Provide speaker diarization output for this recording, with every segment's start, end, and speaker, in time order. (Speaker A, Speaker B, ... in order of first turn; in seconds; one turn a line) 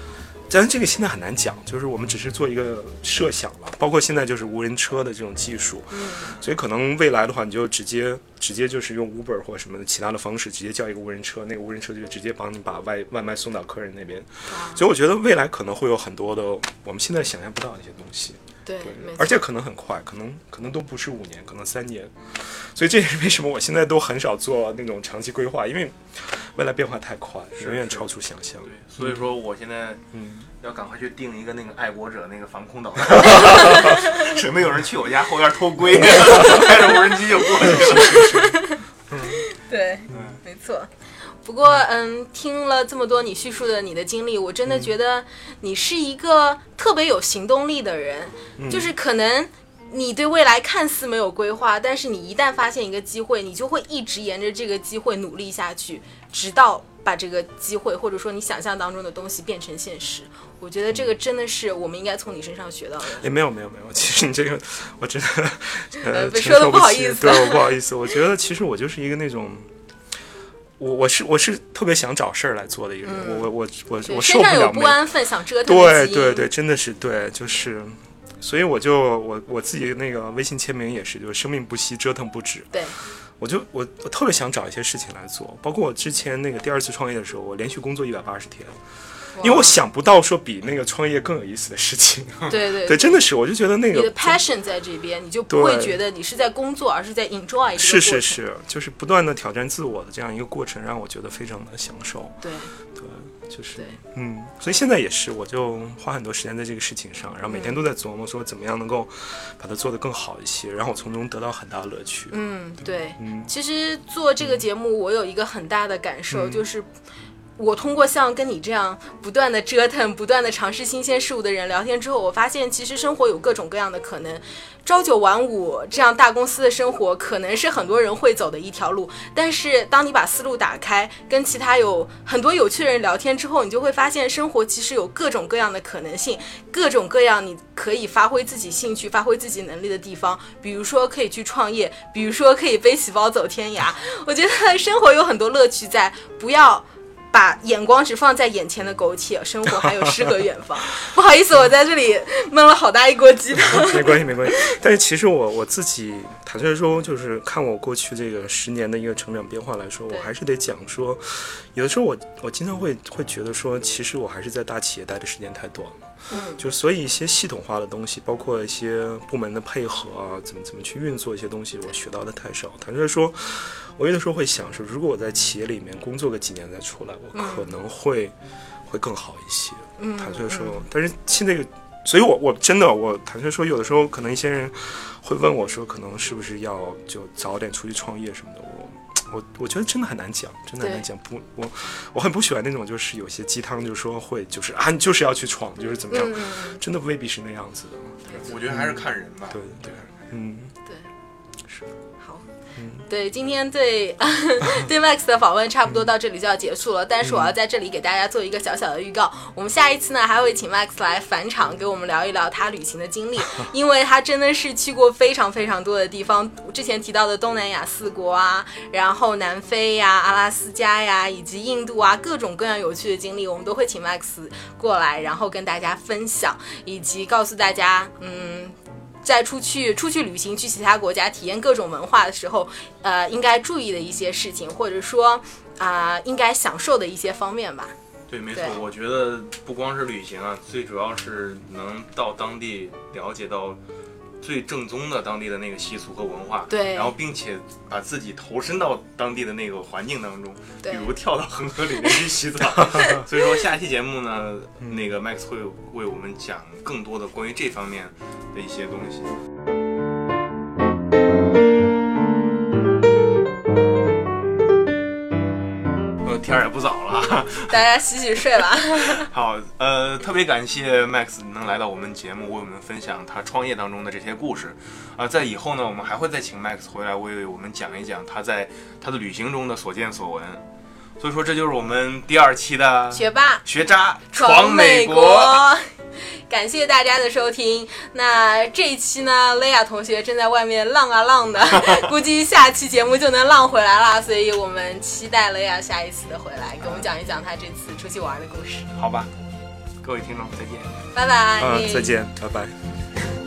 Speaker A: 0.5-29.2
Speaker B: 5.9-6.3
Speaker B: 14.5-14.8
Speaker B: 18.6-19.4
Speaker C: 27.6-28.1
Speaker C: 28.6-30.0
Speaker A: 30.1-30.5
Speaker C: 30.6-38.4
Speaker A: 37.6-38.5
Speaker B: 37.7-40.9
Speaker A: 39.1-39.4
Speaker C: 40.1-40.4
Speaker B: 41.4-63.2
Speaker A: 48.6-48.9
Speaker A: 63.2-69.7
Speaker B: 66.0-67.8
Speaker A: 70.8-75.1
Speaker B: 73.0-73.5
Speaker B: 74.0-76.5
Speaker A: 75.6-82.7
Speaker A: 83.4-88.8
Speaker B: 89.3-89.8
Speaker A: 89.4-94.4
Speaker B: 92.5-93.2
Speaker B: 93.9-98.4
Speaker A: 95.5-96.0
Speaker A: 97.8-102.3
Speaker B: 102.4-102.7
Speaker A: 103.0-112.4
Speaker B: 107.5-107.8
Speaker B: 112.3-116.9
Speaker A: 113.2-113.5
Speaker A: 116.3-116.6
Speaker B: 117.6-154.7
Speaker A: 153.6-178.3
Speaker B: 166.3-166.6
Speaker B: 177.3-177.7
Speaker A: 178.8-200.7
Speaker B: 180.0-180.8
Speaker B: 196.1-196.8
Speaker C: 198.4-200.1
Speaker A: 202.8-203.0
Speaker B: 203.1-237.9
Speaker A: 207.2-207.5
Speaker C: 238.3-243.8
Speaker B: 238.5-238.8
Speaker C: 244.4-259.3
Speaker B: 246.7-247.1
Speaker B: 250.8-251.1
Speaker A: 254.8-255.1
Speaker C: 266.2-267.8
Speaker B: 267.7-269.3
Speaker C: 269.1-280.6
Speaker C: 281.2-285.6
Speaker B: 283.1-283.6
Speaker B: 284.3-285.9
Speaker B: 286.5-298.9
Speaker C: 291.7-292.1
Speaker C: 296.8-297.1
Speaker C: 299.0-299.3
Speaker C: 300.0-301.0
Speaker B: 301.1-302.1
Speaker A: 301.6-302.8